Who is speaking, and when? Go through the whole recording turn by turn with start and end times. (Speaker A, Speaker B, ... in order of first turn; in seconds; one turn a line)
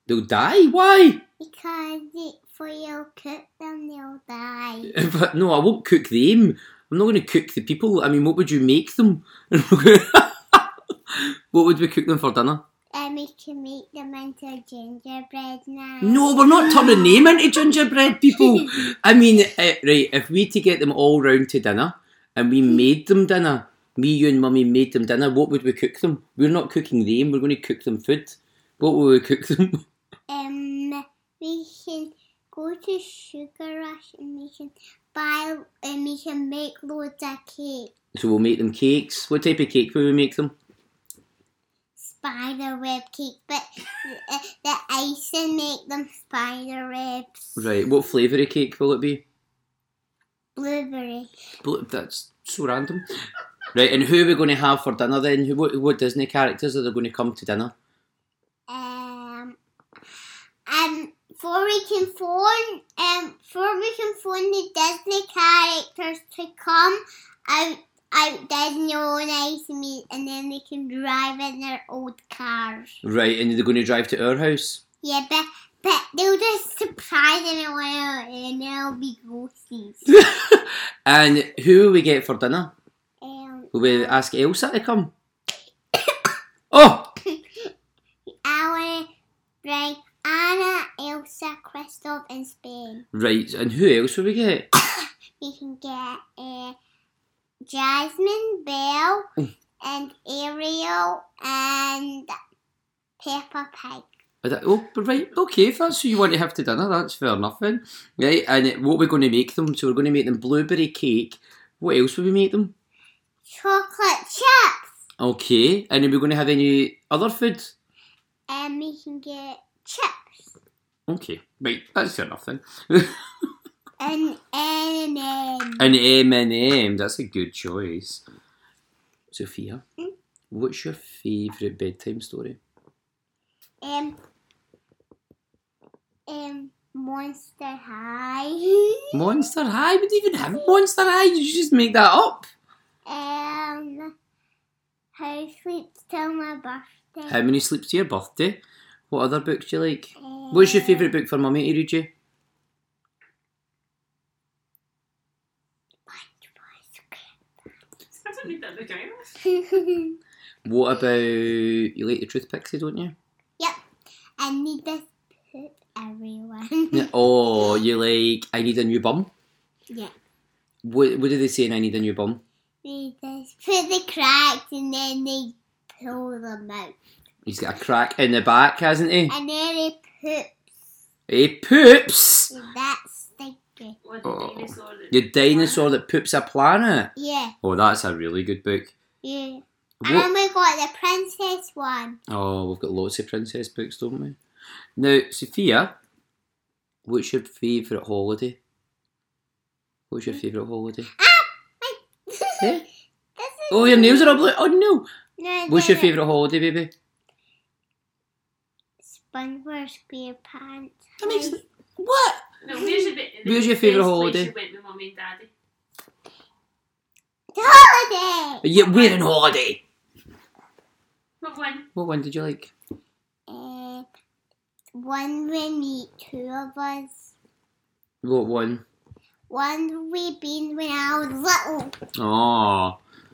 Speaker A: 0.1-1.2
Speaker B: 1.4-5.0
Speaker A: 4.9-12.6
Speaker B: 12.9-17.4
Speaker A: 16.0-29.8
Speaker B: 30.3-37.9
Speaker A: 38.1-40.5
Speaker B: 42.0-47.6
Speaker A: 47.6-49.2
Speaker B: 50.6-51.3
Speaker A: 51.6-53.1
Speaker A: 53.7-57.7
Speaker B: 58.7-59.6
Speaker B: 60.7-73.0
Speaker A: 73.0-74.8
Speaker B: 75.0-80.1
Speaker A: 80.1-82.7
Speaker B: 83.2-84.2
Speaker A: 83.7-85.1
Speaker B: 86.0-86.3
Speaker A: 86.7-87.1
Speaker B: 87.3-87.7
Speaker B: 88.3-89.1
Speaker B: 89.6-93.0
Speaker A: 93.1-94.7
Speaker B: 94.9-96.8
Speaker B: 97.6-99.3
Speaker B: 99.8-102.3
Speaker B: 103.2-104.1
Speaker A: 104.4-112.7
Speaker B: 113.5-114.9
Speaker A: 115.2-117.7
Speaker B: 118.5-120.6
Speaker A: 121.1-123.2
Speaker B: 124.0-125.9
Speaker A: 125.8-128.2
Speaker A: 129.3-129.8
Speaker A: 130.5-132.6
Speaker B: 133.8-134.2
Speaker B: 136.3-139.2
Speaker A: 139.1-142.5
Speaker B: 143.1-144.1
Speaker B: 145.2-147.4
Speaker A: 147.3-152.1
Speaker B: 150.2-151.2
Speaker B: 156.1-157.3
Speaker C: 158.2-159.3
Speaker B: 159.4-160.2
Speaker A: 160.7-163.1
Speaker B: 164.4-167.1
Speaker A: 166.9-169.3
Speaker A: 170.8-172.4
Speaker B: 172.8-176.9
Speaker A: 177.5-179.3
Speaker B: 179.3-180.6
Speaker A: 181.3-182.5
Speaker B: 182.5-184.0
Speaker C: 184.0-185.8
Speaker A: 184.2-187.1
Speaker B: 187.2-187.6
Speaker A: 187.6-188.9
Speaker B: 189.2-192.2
Speaker A: 190.0-190.3
Speaker A: 192.3-194.4
Speaker A: 195.0-196.0
Speaker A: 197.1-198.6
Speaker A: 200.1-201.1
Speaker B: 201.1-202.8
Speaker A: 202.6-202.8
Speaker B: 203.4-204.5
Speaker A: 203.7-205.1
Speaker B: 205.4-206.2
Speaker A: 205.7-206.9
Speaker B: 209.0-211.6
Speaker A: 211.2-212.5
Speaker C: 212.6-215.5
Speaker A: 213.4-214.5
Speaker B: 217.5-218.7
Speaker A: 218.6-219.8
Speaker C: 218.8-219.2
Speaker C: 221.4-221.9
Speaker A: 221.9-222.7
Speaker B: 223.5-224.1
Speaker B: 224.9-227.3
Speaker A: 228.2-228.8
Speaker B: 229.5-232.0
Speaker A: 232.2-233.0